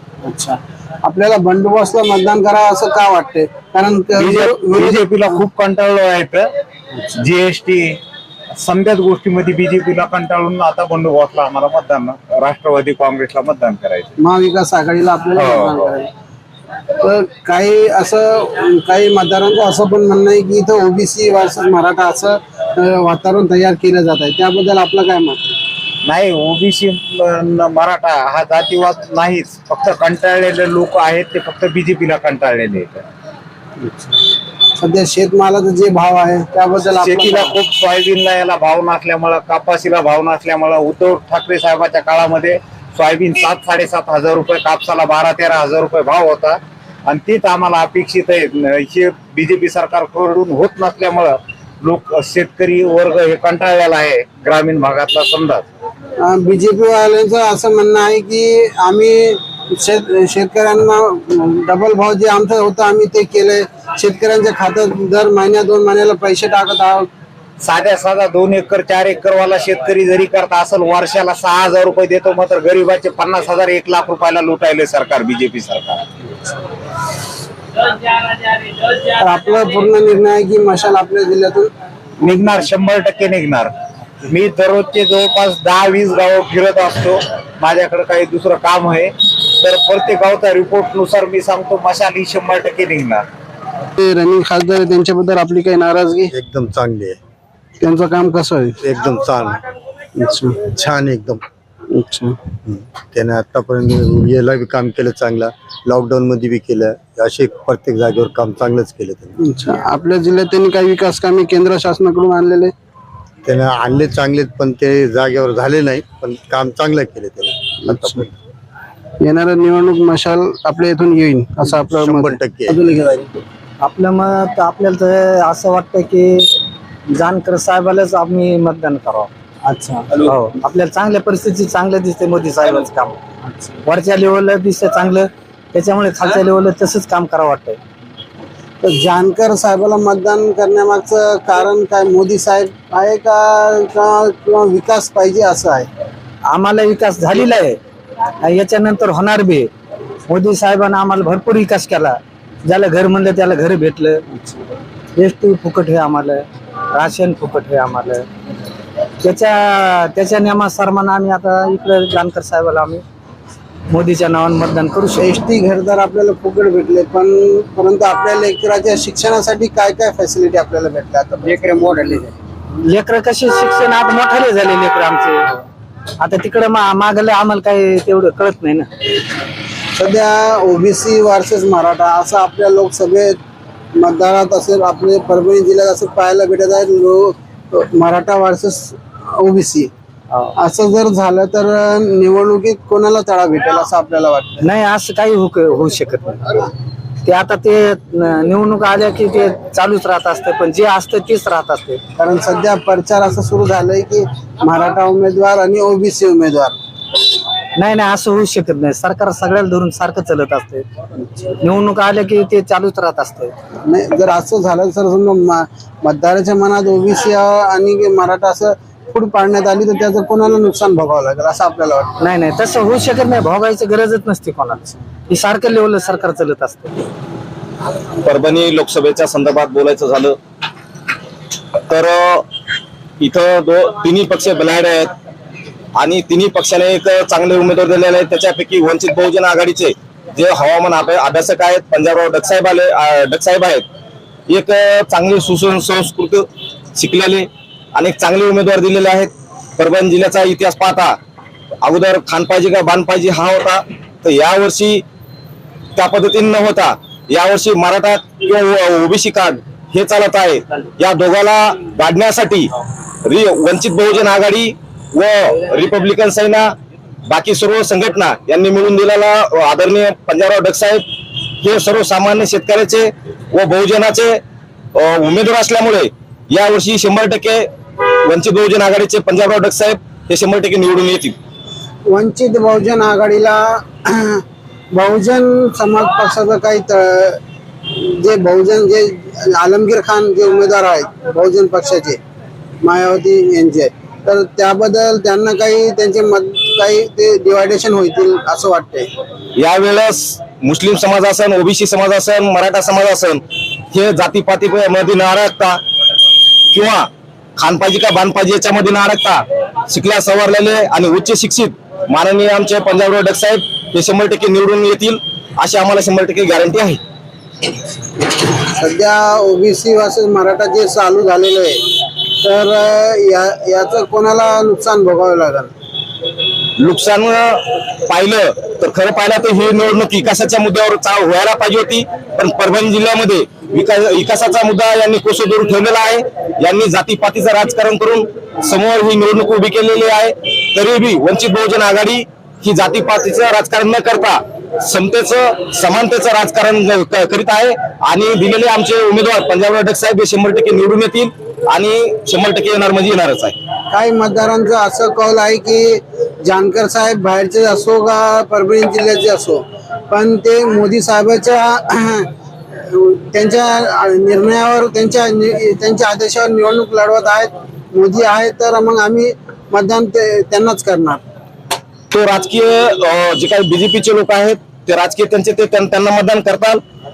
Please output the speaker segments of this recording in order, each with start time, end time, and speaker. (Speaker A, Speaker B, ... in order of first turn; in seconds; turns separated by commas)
Speaker A: 0.2-5.4, Speaker B: 4.1-6.4, Speaker B: 7.2-8.0, Speaker B: 8.6-14.1, Speaker A: 14.2-16.1, Speaker B: 15.3-15.9, Speaker A: 17.0-25.4, Speaker B: 26.1-33.0, Speaker A: 33.8-34.2, Speaker A: 34.8-37.6, Speaker B: 37.0-55.6, Speaker A: 56.2-67.1, Speaker B: 67.6-76.0, Speaker A: 79.2-81.7, Speaker B: 82.2-83.7, Speaker B: 84.2-89.1, Speaker B: 89.6-93.2, Speaker A: 94.0-96.3, Speaker C: 96.3-97.2, Speaker A: 97.8-98.8, Speaker C: 98.8-99.6, Speaker A: 100.2-100.7, Speaker C: 100.7-101.4, Speaker A: 101.9-102.3, Speaker C: 102.7-109.3, Speaker A: 109.4-112.7, Speaker C: 113.4-118.3, Speaker A: 117.8-118.3, Speaker A: 119.2-123.3, Speaker C: 121.8-122.8, Speaker D: 123.8-126.5, Speaker D: 127.1-129.3, Speaker A: 129.6-130.1, Speaker D: 130.2-133.1, Speaker A: 133.4-133.8, Speaker D: 133.8-137.8, Speaker A: 138.8-145.9, Speaker D: 146.5-147.8, Speaker D: 148.4-149.7, Speaker D: 150.3-154.2, Speaker A: 154.3-154.6, Speaker D: 155.2-158.2, Speaker D: 159.2-163.0, Speaker D: 163.9-165.3, Speaker A: 165.2-172.3, Speaker D: 172.9-175.5, Speaker D: 176.2-178.9, Speaker A: 179.9-183.3, Speaker A: 183.9-189.9, Speaker A: 190.6-194.6, Speaker D: 194.6-196.4, Speaker D: 197.2-202.0, Speaker A: 202.2-206.8, Speaker D: 207.8-210.8, Speaker D: 211.6-213.5, Speaker A: 213.8-222.1, Speaker D: 222.2-226.9, Speaker E: 228.2-230.4, Speaker E: 231.9-232.4, Speaker E: 233.2-235.1, Speaker E: 235.9-243.8, Speaker E: 244.5-251.2, Speaker E: 251.8-255.0, Speaker E: 255.9-262.7, Speaker E: 263.2-266.7, Speaker E: 267.3-271.0, Speaker E: 271.6-274.4, Speaker E: 274.9-277.6, Speaker E: 278.3-281.4, Speaker A: 282.1-284.4, Speaker A: 284.9-287.4, Speaker A: 288.0-292.2, Speaker A: 292.8-299.1, Speaker E: 299.6-305.8, Speaker E: 306.7-317.0, Speaker A: 318.8-321.8, Speaker A: 322.4-325.7, Speaker E: 326.8-353.6, Speaker A: 353.9-362.2, Speaker A: 362.9-371.2, Speaker E: 372.1-376.8